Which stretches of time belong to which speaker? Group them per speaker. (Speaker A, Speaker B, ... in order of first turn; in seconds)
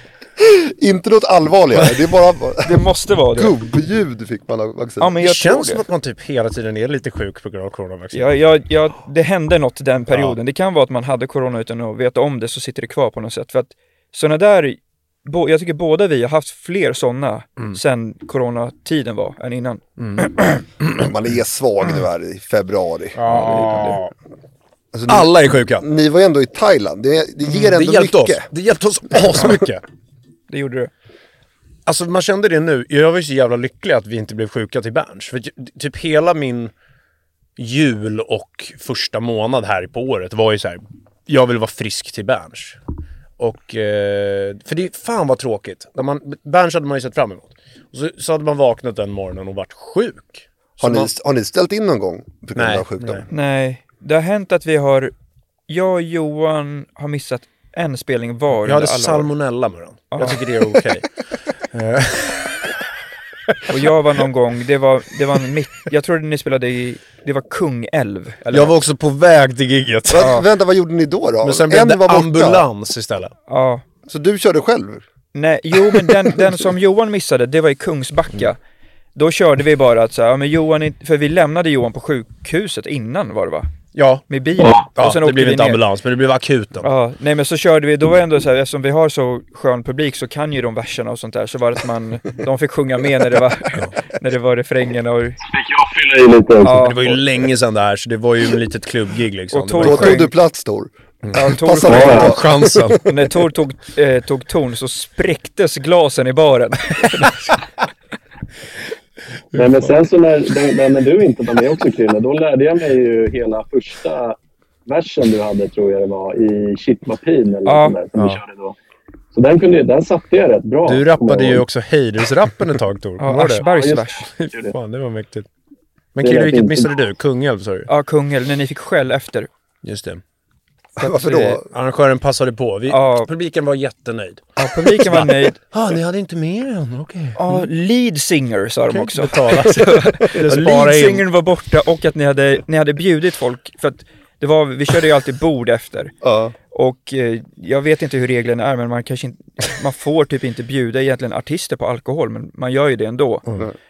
Speaker A: 0.4-5.2, 20.9-23.9, 24.9-28.5, 50.8-53.2, 70.1-72.6, 74.1-75.0, 99.8-103.0, 131.0-131.7, 146.2-146.5
Speaker B: 2.6-3.5, 5.0-5.8, 8.1-20.6, 23.3-23.9, 30.5-30.9, 53.3-55.1, 55.7-59.3, 60.1-60.4, 63.7-68.7, 70.2-70.4, 73.5-73.8, 75.3-78.6, 79.1-83.7, 84.3-85.8, 86.8-95.4, 96.6-97.2, 99.5-100.3, 101.3-102.4, 103.0-107.5, 117.7-118.0, 123.2-124.3, 127.9-129.5, 131.0-131.6, 132.9-133.3, 134.6-135.6, 137.3-146.1, 146.7-153.4
Speaker C: 5.2-8.3, 10.1-10.3, 20.0-20.3, 20.8-21.1, 23.1-24.1, 25.1-25.9, 27.5-29.8, 31.9-36.7, 37.6-42.8, 43.4-51.1, 52.5-53.3, 58.6-61.1, 61.7-62.7, 63.5-63.7, 68.5-70.3, 71.4-73.3, 83.9-86.9, 96.7-100.2, 101.3-103.0, 109.5-109.9, 118.2-118.4, 120.8-123.6, 124.3-125.5, 126.1-127.9, 129.8-130.2, 131.6-137.7, 138.9-141.2
Speaker D: 95.4-96.8, 101.9-102.3, 109.5-118.8, 119.3-121.6, 123.6-124.7, 126.2-126.9